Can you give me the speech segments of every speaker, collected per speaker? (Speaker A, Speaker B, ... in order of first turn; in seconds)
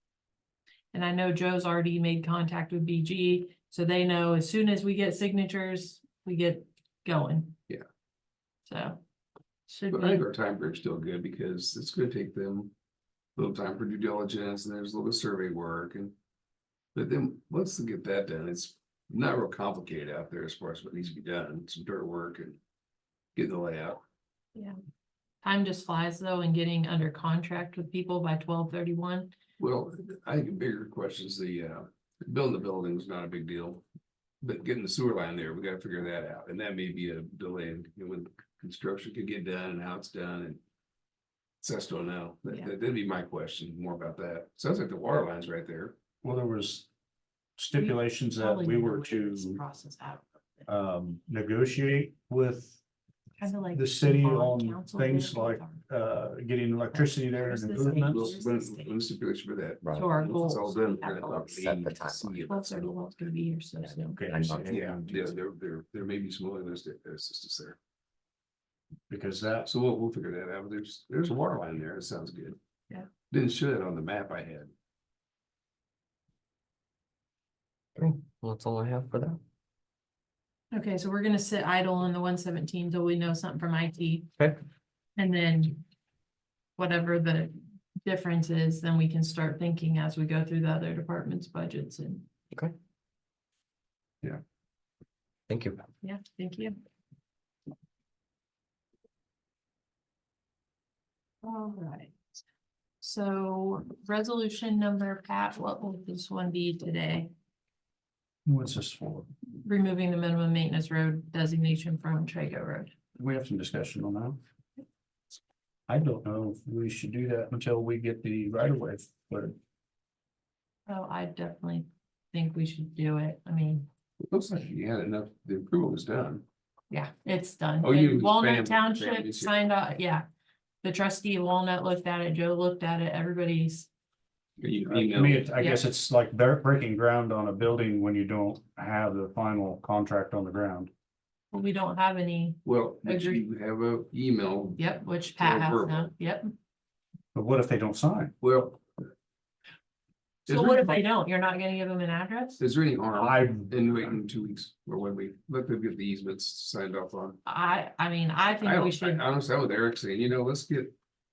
Speaker A: 0.9-7.6, 8.7-9.0, 9.7-10.2, 25.4-29.3, 47.7-50.7, 53.4-55.8, 56.9-59.0, 60.0-61.3, 62.5-64.6, 80.7-84.3, 85.2-85.8, 86.8-92.3, 96.0-96.8, 101.4-102.1, 103.0-107.3, 109.6-112.9, 120.9-123.8, 126.9-130.2, 130.8-133.9, 135.5-135.9, 141.5-143.4, 144.8-146.5, 150.5-152.6, 157.4-159.2
Speaker B: 9.9-12.7, 13.3-16.1, 16.9-22.6, 23.4-24.0, 29.6-33.8, 34.4-40.6, 41.6-46.0, 57.9-62.9, 64.7-67.8, 69.7-72.6, 73.3-74.7, 124.3-126.4, 127.8-129.5, 134.6-135.5, 142.6-144.8, 145.3-146.1, 148.4-148.8, 150.5-151.0, 152.6-157.4, 158.6-160.9
Speaker C: 46.2-46.9, 47.6-49.6, 50.7-52.8, 53.7-58.3, 64.1-64.9, 69.1-69.7, 108.4-109.3, 113.2-114.4, 115.9-119.5, 134.9-140.9, 147.3-148.3, 153.1-154.2
Speaker D: 59.8-62.6, 63.8-65.3, 78.0-79.4, 95.5-95.8